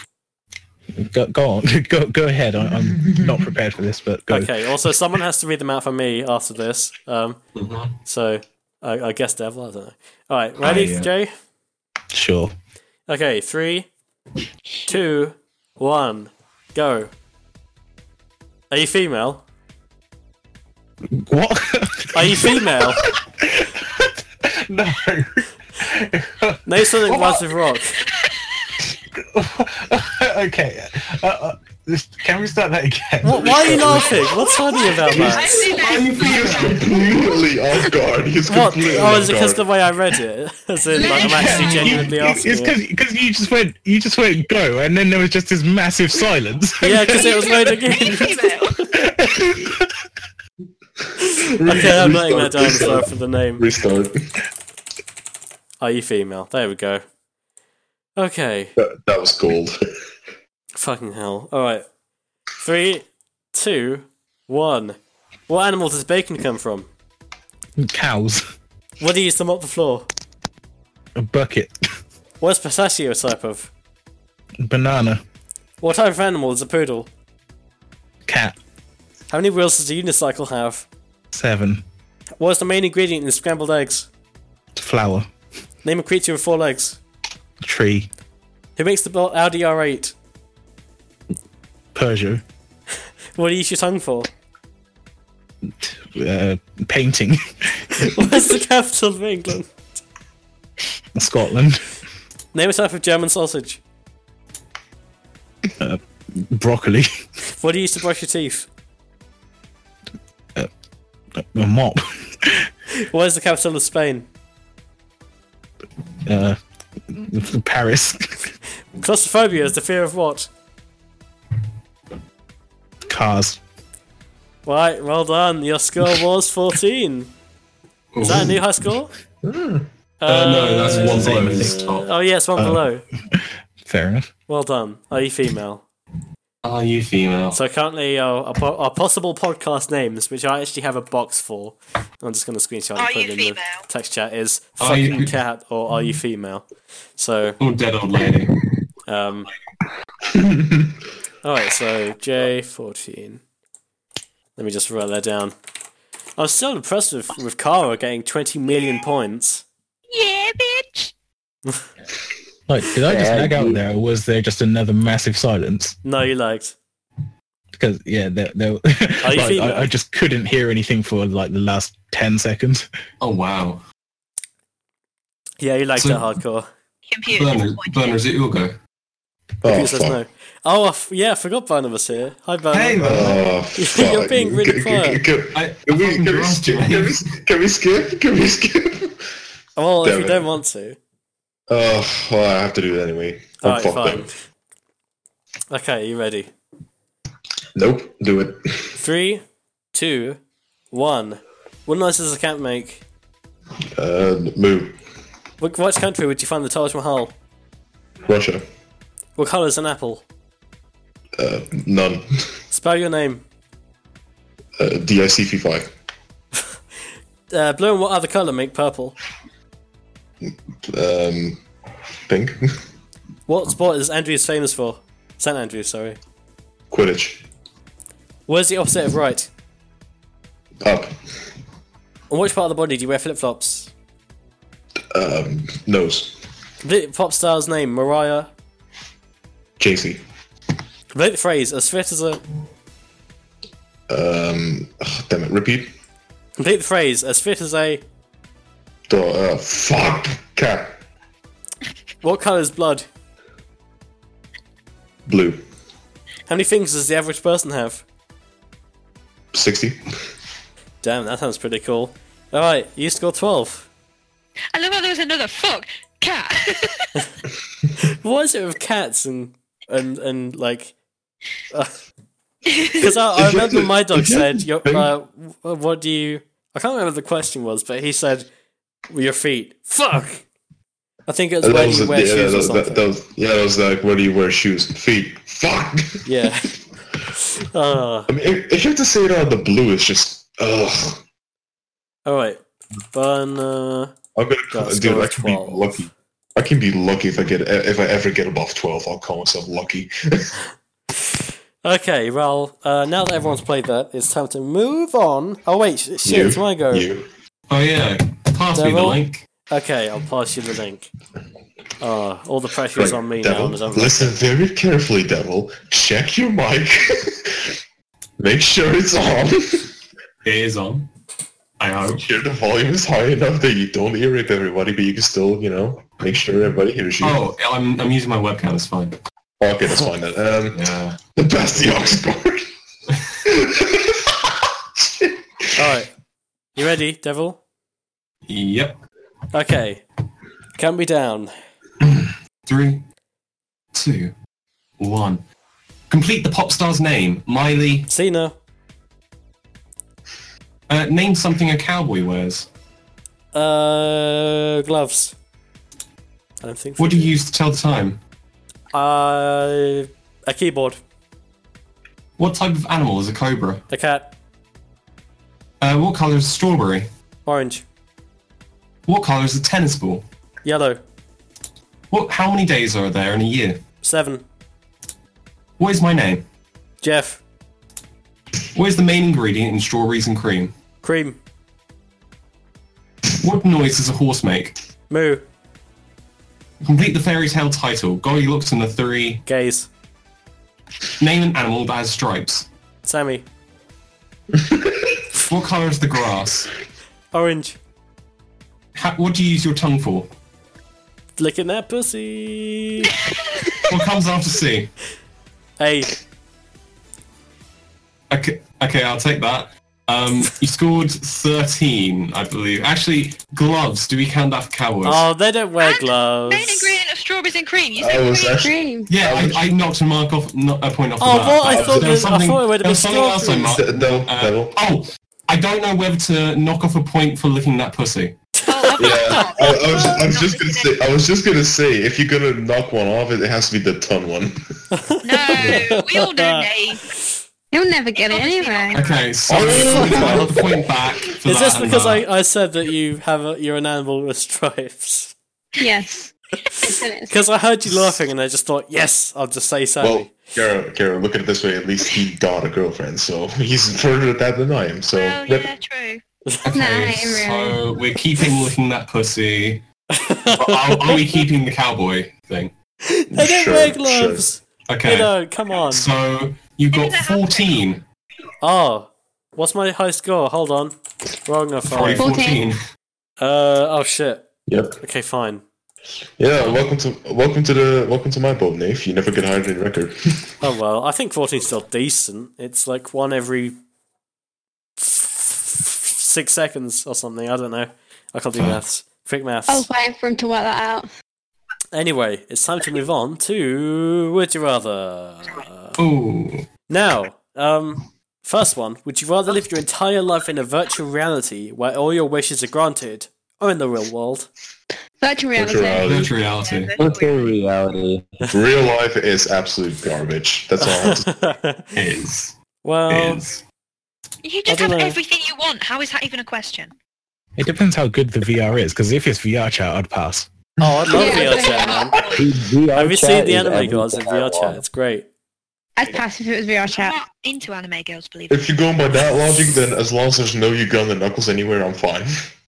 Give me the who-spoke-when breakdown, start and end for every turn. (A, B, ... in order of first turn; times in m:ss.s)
0:01.0-0:04.5 A
0:02.7-0:03.4 B
0:04.3-0:07.4 C
0:07.6-0:08.0 D
0:08.0-0:11.3 C
0:10.6-0:11.1 D
0:12.1-0:12.5 A
0:13.1-0:13.9 C
0:14.9-0:17.1 C
0:18.7-0:19.4 C
0:21.1-0:22.7 A
0:22.1-0:23.0 C
0:23.4-0:27.4 A
0:26.6-0:28.0 C
0:29.1-0:34.4 A
0:33.2-0:35.6 C
0:33.8-0:37.0 E
0:35.1-0:35.6 B
0:35.6-0:37.4 D
0:36.1-0:39.7 B
0:38.5-0:42.8 C
0:40.9-0:42.0 E
0:41.0-0:47.5 A
0:46.8-0:48.8 C
0:47.1-0:48.9 E
0:49.0-0:49.8 A
0:51.2-0:53.6 C
0:51.4-0:54.2 B
0:55.8-0:57.0 C
0:58.2-0:58.7 C
0:58.8-0:59.8 B
1:00.7-1:01.9 C
1:02.6-1:05.0 C
1:05.5-1:06.9 C
1:07.8-1:08.4 A
1:09.0-1:10.1 C
1:11.2-1:11.7 A
1:12.4-1:13.7 C
1:14.6-1:15.2 A
1:15.8-1:17.1 C
1:18.3-1:18.6 A
1:19.3-1:20.9 C
1:21.3-1:21.8 A
1:22.4-1:24.1 C
1:24.8-1:25.3 A
1:25.8-1:27.0 C
1:27.6-1:28.1 A
1:28.8-1:30.1 C
1:31.9-1:32.4 A
1:33.4-1:34.3 C
1:35.8-1:38.0 A
1:38.0-1:39.7 C
1:41.2-1:41.8 A
1:42.5-1:43.8 C
1:45.8-1:47.2 A
1:47.6-1:48.7 C
1:51.4-1:52.7 A
1:52.9-1:54.3 C
1:56.2-1:56.6 A
1:57.1-1:58.5 A
1:59.0-2:00.5 C
2:03.1-2:03.6 A
2:04.6-2:07.3 C
2:08.1-2:08.6 D
2:08.2-2:09.1 C
2:09.4-2:09.9 B
2:10.2-2:13.0 C
2:10.2-2:12.1 D
2:10.9-2:11.8 A
2:12.6-2:14.3 A
2:14.5-2:15.9 C
2:16.6-2:17.6 D
2:17.5-2:26.6 C
2:23.0-2:23.8 E
2:24.8-2:25.4 D
2:27.2-2:27.6 C
2:27.6-2:28.6 D
2:29.0-2:29.5 C
2:30.3-2:30.9 B
2:31.4-2:33.4 C
2:34.6-2:35.5 C
2:36.4-2:39.6 C
2:40.1-2:41.1 E
2:42.7-2:46.0 A
2:43.0-2:43.8 F
2:46.0-2:46.8 C
2:47.7-2:52.9 A
2:49.2-2:49.9 C
2:53.2-2:53.8 D
2:55.6-2:56.7 C
2:56.0-2:56.3 D
2:57.1-2:58.2 E
2:57.3-2:58.8 D
2:59.6-3:00.2 B
2:59.6-3:05.2 C
3:02.7-3:03.4 D
3:03.0-3:09.2 B
3:05.5-3:07.3 D
3:09.8-3:11.0 C
3:10.0-3:10.5 B
3:11.7-3:14.3 B
3:13.6-3:14.4 C
3:15.7-3:16.5 C
3:17.8-3:18.9 B
3:19.0-3:20.4 C
3:20.9-3:23.0 C
3:24.0-3:25.0 B
3:25.6-3:27.4 C
3:28.2-3:28.6 B
3:29.4-3:30.2 C
3:31.4-3:32.3 B
3:32.7-3:33.4 C
3:34.8-3:35.9 B
3:37.5-3:39.2 C
3:40.4-3:41.6 B
3:42.3-3:42.8 B
3:43.5-3:46.2 C
3:46.9-3:47.4 B
3:48.5-3:49.5 C
3:50.8-3:51.2 B
3:52.3-3:53.9 C
3:55.1-3:56.4 B
3:56.8-3:58.5 C
3:59.8-4:00.2 B
4:01.1-4:02.4 C
4:04.1-4:05.9 B
4:06.6-4:08.0 C
4:09.1-4:11.0 B
4:12.2-4:13.0 C
4:15.3-4:15.6 B
4:16.5-4:18.0 C
4:19.5-4:20.1 B
4:21.0-4:23.9 C
4:24.7-4:27.1 E
4:28.0-4:30.9 C
4:32.6-4:33.0 E
4:33.0-4:38.5 C
4:33.3-4:35.1 B
4:39.1-4:40.4 C
4:41.3-4:43.0 C
4:41.6-4:46.2 B
4:46.2-4:46.7 C
4:47.4-4:48.3 C
4:48.3-4:51.2 B
4:52.2-4:52.6 C
4:53.1-4:54.1 C
4:54.4-5:00.6 B
4:54.7-4:56.0 C
5:01.8-5:07.1 C
5:06.2-5:07.2 B
5:07.7-5:09.4 D
5:08.7-5:11.1 C
5:12.0-5:14.4 C
5:12.9-5:17.7 B
5:18.4-5:19.9 B
5:20.4-5:21.1 D
5:21.8-5:22.2 D
5:22.2-5:27.4 B
5:27.2-5:29.2 D
5:29.6-5:32.7 B
5:30.7-5:31.2 D
5:33.4-5:34.4 B
5:35.0-5:35.7 B
5:35.8-5:36.1 C
5:36.8-5:37.6 C
5:38.5-5:39.0 D
5:39.5-5:40.0 C
5:40.7-5:41.5 C
5:42.0-5:43.0 D
5:43.9-5:44.3 D
5:45.0-5:45.4 D
5:46.1-5:48.1 D
5:48.1-5:48.6 C
5:50.9-5:52.7 D
5:53.5-5:55.4 C
5:56.6-5:57.4 C
5:57.0-5:58.2 D
5:58.9-6:01.0 C
6:02.4-6:03.8 D
6:03.9-6:04.3 C
6:05.8-6:07.1 D
6:07.4-6:07.8 C
6:09.1-6:10.2 D
6:10.6-6:11.0 C
6:12.1-6:13.8 D
6:14.0-6:14.4 C
6:15.8-6:16.4 D
6:17.0-6:17.4 C
6:18.7-6:20.7 D
6:21.0-6:21.4 C
6:23.4-6:24.8 D
6:25.1-6:25.4 C
6:26.8-6:29.4 D
6:29.4-6:29.9 C
6:31.2-6:32.7 D
6:33.0-6:33.4 C
6:34.5-6:35.2 B
6:35.4-6:36.7 D
6:37.3-6:37.8 C
6:38.9-6:40.3 D
6:41.4-6:43.1 C
6:43.2-6:43.9 E
6:43.9-6:44.9 D
6:45.8-6:46.2 C
6:48.3-6:55.2 D
6:55.0-6:56.9 C
6:55.8-6:58.7 E
6:58.0-6:59.7 B
6:58.6-6:59.1 G
6:59.1-7:08.4 D
7:01.2-7:03.8 C
7:01.7-7:02.2 B
7:03.6-7:04.7 B
7:08.6-7:09.8 C
7:08.7-7:11.0 E
7:09.0-7:14.6 B
7:14.9-7:17.4 C
7:15.2-7:17.0 E
7:17.7-7:19.0 G
7:18.1-7:19.4 E
7:18.9-7:22.2 D
7:19.5-7:21.0 B
7:19.5-7:20.6 C
7:21.4-7:25.3 C
7:25.8-7:27.3 G
7:26.8-7:30.3 C
7:30.0-7:35.7 B
7:35.1-7:36.2 E
7:36.6-7:39.8 D
7:36.7-7:37.8 G
7:40.1-7:41.4 C
7:40.6-7:42.7 D
7:43.0-7:46.1 C
7:43.3-7:44.5 B
7:44.9-7:45.3 D
7:45.9-7:48.0 D
7:46.9-7:47.8 E
7:48.6-7:52.3 C
7:51.9-7:52.8 D
7:52.2-7:52.7 G
7:53.4-7:54.5 C
7:54.7-7:55.0 B
7:55.0-7:55.6 C
7:56.4-8:00.5 B
8:00.6-8:03.8 C
8:05.0-8:09.9 C
8:09.7-8:11.1 G
8:11.9-8:16.0 C
8:16.0-8:16.7 D
8:16.9-8:24.5 C
8:25.2-8:26.1 G
8:25.6-8:26.4 B
8:26.0-8:26.9 D
8:26.4-8:27.5 E
8:27.0-8:28.4 F
8:28.5-8:31.3 B
8:30.8-8:31.9 C
8:31.9-8:32.5 D
8:32.8-8:33.4 C
8:33.1-8:33.6 D
8:34.4-8:36.9 E
8:34.7-8:35.2 C
8:37.6-8:40.5 A
8:40.8-8:42.2 C
8:40.8-8:41.6 B
8:41.1-8:42.0 G
8:41.6-8:42.5 E
8:42.3-8:44.8 F
8:42.9-8:45.3 C
8:46.0-8:47.1 G
8:46.9-8:48.7 E
8:48.5-8:52.5 B